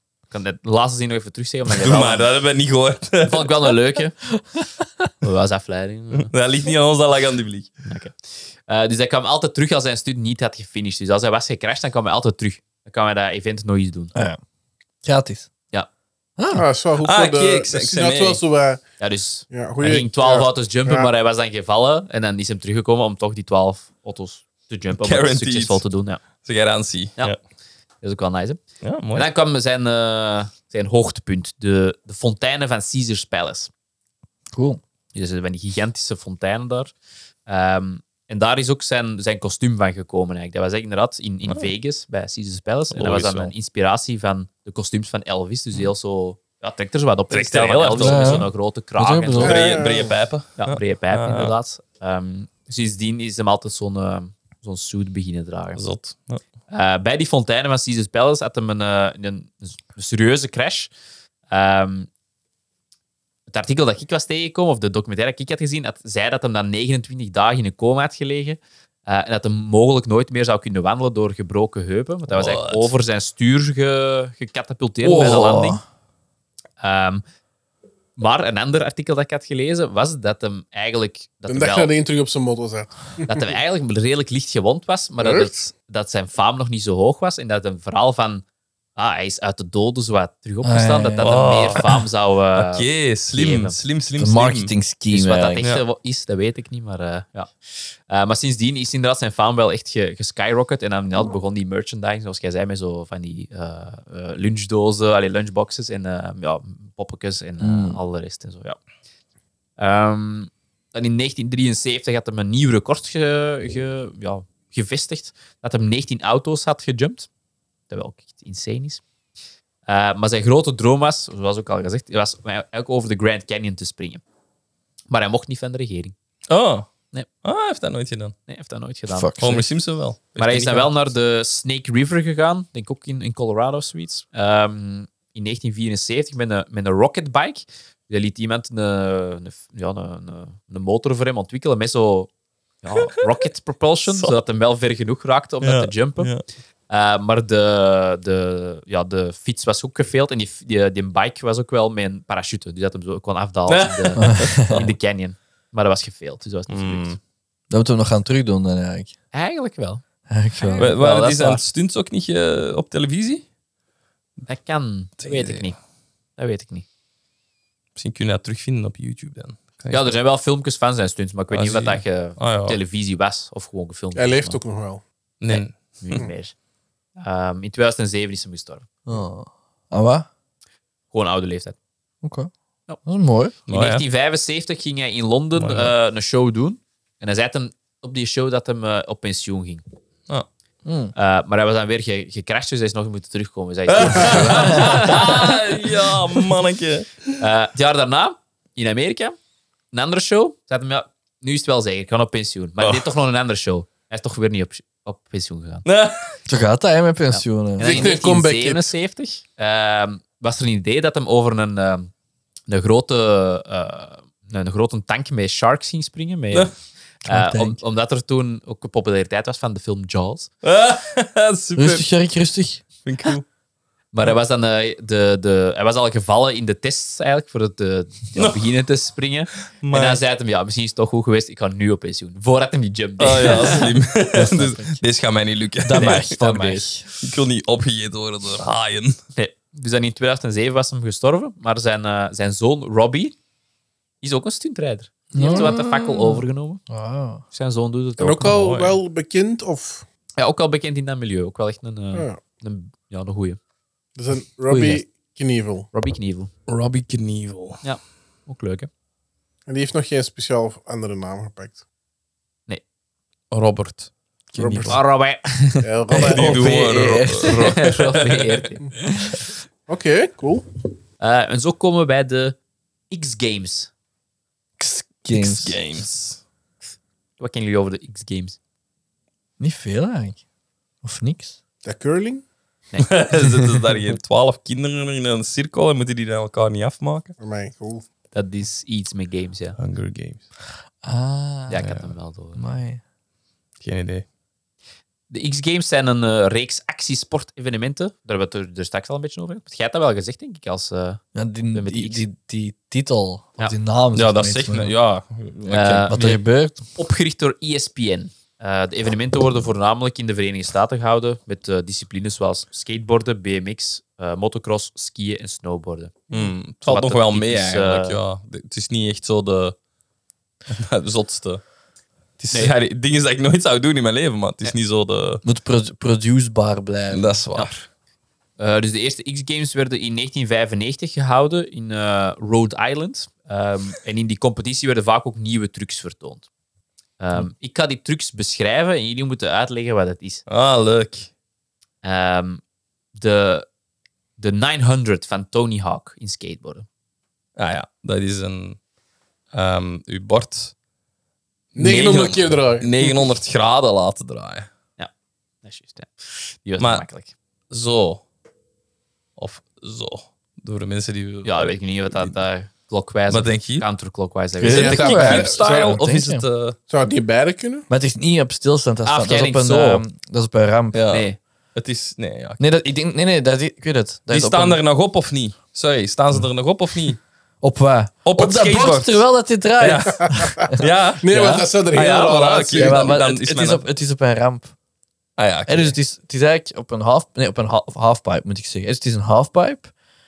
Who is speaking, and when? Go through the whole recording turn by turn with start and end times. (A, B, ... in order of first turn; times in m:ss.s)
0:00.3-0:02.3 A
0:01.7-0:03.7 B
0:03.2-0:04.2 A
0:04.4-0:05.1 C
0:05.2-0:06.3 A
0:06.1-0:07.8 B
0:07.9-0:08.2 A
0:08.7-0:14.1 A
0:15.0-0:15.5 C
0:16.4-0:16.6 C
0:16.5-0:18.8 D
0:17.0-0:18.4 B
0:19.0-0:26.2 A
0:19.5-0:21.1 D
0:25.0-0:25.8 B
0:26.4-0:27.4 B
0:28.0-0:28.6 A
0:28.8-0:29.3 B
0:29.1-0:33.7 A
0:34.5-0:34.8 C
0:35.1-0:36.9 A
0:37.5-0:49.7 A
0:42.9-0:43.5 B
0:47.3-0:48.5 B
0:48.0-0:49.8 C
0:49.4-0:50.1 D
0:49.4-0:51.5 B
0:50.6-0:55.8 A
0:55.8-0:56.4 B
0:56.7-1:00.9 A
1:01.5-1:02.1 A
1:03.5-1:15.8 A
1:12.3-1:12.9 B
1:15.0-1:15.7 B
1:15.2-1:15.8 C
1:16.8-1:17.2 A
1:18.2-1:21.9 A
1:21.5-1:23.4 D
1:23.3-1:28.4 A
1:25.2-1:25.5 D
1:29.0-1:33.8 A
1:30.6-1:31.3 C
1:31.2-1:32.0 B
1:32.6-1:34.7 B
1:34.2-1:35.6 C
1:35.1-1:48.8 A
1:47.6-1:48.0 C
1:49.8-1:57.3 A
1:57.9-1:59.0 A
1:59.9-2:04.2 A
2:05.1-2:06.1 A
2:06.5-2:06.9 B
2:07.4-2:08.4 B
2:08.5-2:09.4 A
2:09.1-2:09.7 C
2:09.4-2:10.9 B
2:10.4-2:22.3 A
2:22.8-2:26.3 A
2:24.1-2:24.4 B
2:25.6-2:26.4 B
2:26.9-2:37.2 A
2:33.7-2:34.9 B
2:34.2-2:34.8 C
2:36.7-2:37.2 B
2:37.7-2:39.1 C
2:39.3-2:40.0 A
2:40.3-2:41.2 C
2:40.6-2:41.6 A
2:40.8-2:43.5 B
2:44.5-2:45.8 A
2:45.2-2:45.7 B
2:46.4-2:46.9 A
2:48.0-2:50.1 B
2:49.9-2:54.6 A
2:51.5-2:52.8 B
2:54.1-2:55.0 D
2:55.4-2:56.2 B
2:55.5-2:56.6 A
2:57.2-2:58.9 A
2:59.1-3:00.3 C
3:01.1-3:01.8 A
3:02.2-3:02.5 C
3:03.0-3:03.6 C
3:03.7-3:04.0 B
3:03.7-3:09.8 A
3:05.6-3:05.9 B
3:10.8-3:11.1 C
3:11.2-3:15.7 A
3:13.9-3:17.4 B
3:14.6-3:15.0 C
3:17.4-3:19.4 A
3:19.9-3:25.8 A
3:22.8-3:23.1 B
3:25.8-3:26.3 B
3:26.5-3:28.0 C
3:27.3-3:32.1 A
3:27.8-3:28.9 D
3:32.7-3:36.7 A
3:37.2-3:40.5 A
3:37.3-3:37.8 C
3:40.6-3:42.1 B
3:41.8-3:42.8 C
3:43.0-3:43.4 B
3:44.1-3:54.8 A
3:48.4-3:48.7 B
3:49.8-3:50.2 B
3:53.2-3:56.3 B
3:53.5-3:53.8 C
3:54.4-3:54.8 C
3:55.8-3:57.1 C
3:55.9-3:56.8 A
3:57.2-3:59.2 B
3:59.4-4:03.4 A
4:04.2-4:06.8 A
4:05.3-4:07.4 C
4:07.5-4:08.6 A
4:08.2-4:10.0 D
4:08.5-4:09.0 B
4:10.4-4:13.6 A
4:12.1-4:12.4 D
4:14.2-4:15.9 D
4:14.7-4:15.0 A
4:15.9-4:16.5 A
4:16.7-4:17.8 B
4:17.8-4:18.9 A
4:19.7-4:21.8 D
4:23.5-4:25.0 B
4:24.6-4:25.0 D
4:24.9-4:25.8 A
4:25.8-4:26.8 D
4:26.1-4:27.9 C
4:26.2-4:28.6 B
4:27.4-4:29.4 A
4:29.9-4:30.7 D
4:31.2-4:32.6 A
4:33.1-4:33.9 A
4:34.8-4:35.8 C
4:35.3-4:36.4 B
4:37.4-4:38.6 A
4:39.6-4:40.4 C
4:41.0-4:41.6 C
4:41.8-4:42.4 D
4:42.9-4:43.2 A
4:43.0-4:47.4 B
4:47.4-4:48.1 D
4:48.3-4:49.8 A
4:49.8-4:50.4 B
4:51.0-4:51.8 C
4:51.7-4:52.6 A
4:51.8-4:52.1 B
4:52.6-4:53.0 C
4:53.8-4:54.2 B
4:55.3-5:01.2 A
5:01.4-5:04.9 C
5:01.7-5:02.2 A
5:04.2-5:06.2 B
5:05.7-5:06.4 A
5:06.1-5:06.8 C
5:07.0-5:16.3 A
5:16.3-5:19.8 B
5:16.8-5:18.2 A
5:20.7-5:21.6 B
5:22.4-5:25.4 B
5:25.4-5:27.4 C
5:27.1-5:27.8 B
5:28.6-5:36.5 A
5:37.2-5:40.4 A
5:40.5-5:41.3 B
5:42.0-5:42.6 A
5:43.1-5:43.7 A
5:44.4-5:46.9 A
5:47.6-5:48.8 B
5:49.5-5:50.7 B
5:51.7-5:54.7 B
5:51.8-5:53.2 D
5:55.6-5:57.3 A
5:56.8-5:57.0 B
5:57.7-5:58.2 B
5:59.4-6:02.3 B
6:01.4-6:05.9 A
6:03.3-6:03.9 B
6:04.6-6:06.4 C
6:04.6-6:06.0 D
6:04.7-6:06.8 B
6:06.9-6:07.9 D
6:07.9-6:11.1 C
6:09.1-6:10.0 A
6:10.9-6:12.6 B
6:11.1-6:11.4 A
6:12.6-6:14.8 C
6:14.3-6:17.2 B
6:17.6-6:20.9 C
6:18.2-6:19.3 B
6:19.8-6:23.9 B
6:20.2-6:23.1 D
6:21.3-6:22.3 A
6:22.8-6:24.7 C
6:25.4-6:26.0 B
6:25.7-6:29.9 C